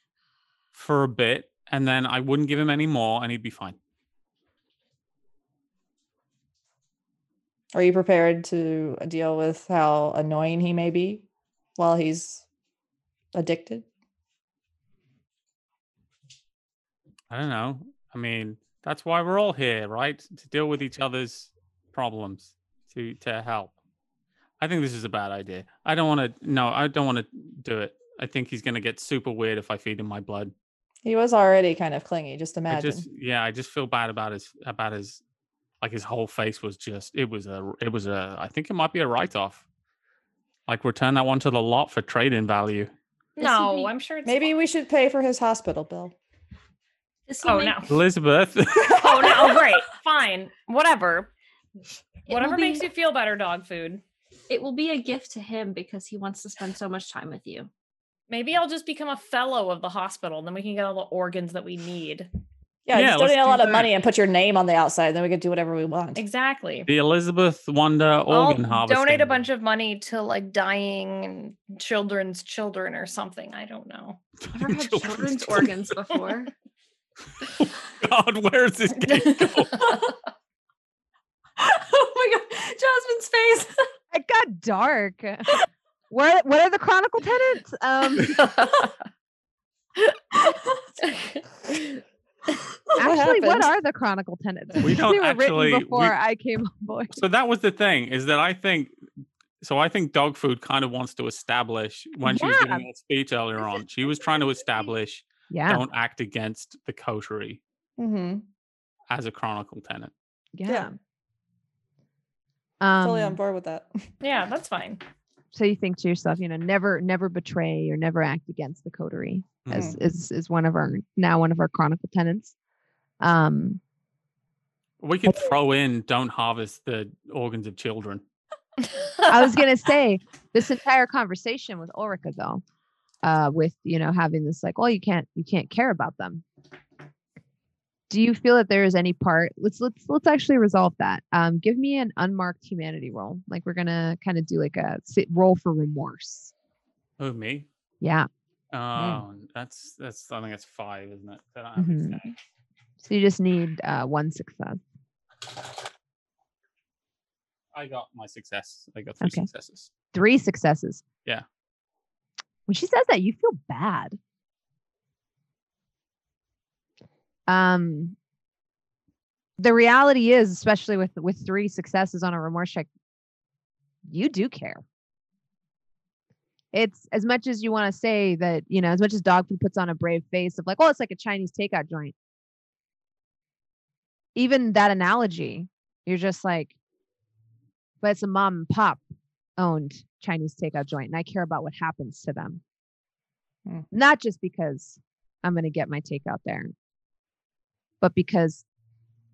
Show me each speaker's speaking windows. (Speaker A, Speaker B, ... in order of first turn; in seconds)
Speaker A: 0.7-3.8, 17.3-23.7, 24.6-30.5, 32.7-35.2, 35.8-39.6, 40.7-42.9, 47.9-49.3, 62.9-63.9, 66.9-69.4, 74.5-75.7, 77.4-79.8, 94.8-96.2, 97.2-98.9, 99.6-107.6, 109.1-110.1, 119.6-120.0, 125.0-128.2, 147.2-147.7, 148.7-152.3, 157.7-159.9
Speaker B: 7.7-11.2, 11.8-12.4, 13.3-13.9, 31.0-33.1, 44.2-46.1, 62.9-66.2, 93.0-93.7, 108.0-108.4, 113.0-113.9, 119.7-120.0, 149.0-149.2
Speaker C: 43.4-44.5, 47.4-47.9, 48.8-51.3, 52.3-54.0, 58.3-62.3, 66.2-66.9, 68.3-76.1, 114.2-115.0
Speaker D: 43.4-43.9, 47.3-47.9, 49.0-49.7, 52.3-52.9, 54.5-57.7, 74.5-76.5, 79.7-80.2, 81.6-83.8, 88.6-88.9, 90.3-90.8
Speaker E: 84.1-85.5, 86.1-88.5, 93.0-97.2, 102.2-102.8, 105.5-105.8, 110.6-110.9, 112.8-113.4, 115.5-122.5, 123.2-123.8, 129.3-132.6, 133.2-136.4, 138.1-146.5, 148.0-148.3, 151.8-152.3, 153.0-154.8, 159.2-159.5, 160.1-161.0, 162.7-164.2, 167.5-168.2, 169.6-172.9, 174.1-174.8, 176.7-182.1, 184.3-186.7, 188.0-189.1, 189.6-192.6, 193.9-196.7, 198.0-198.7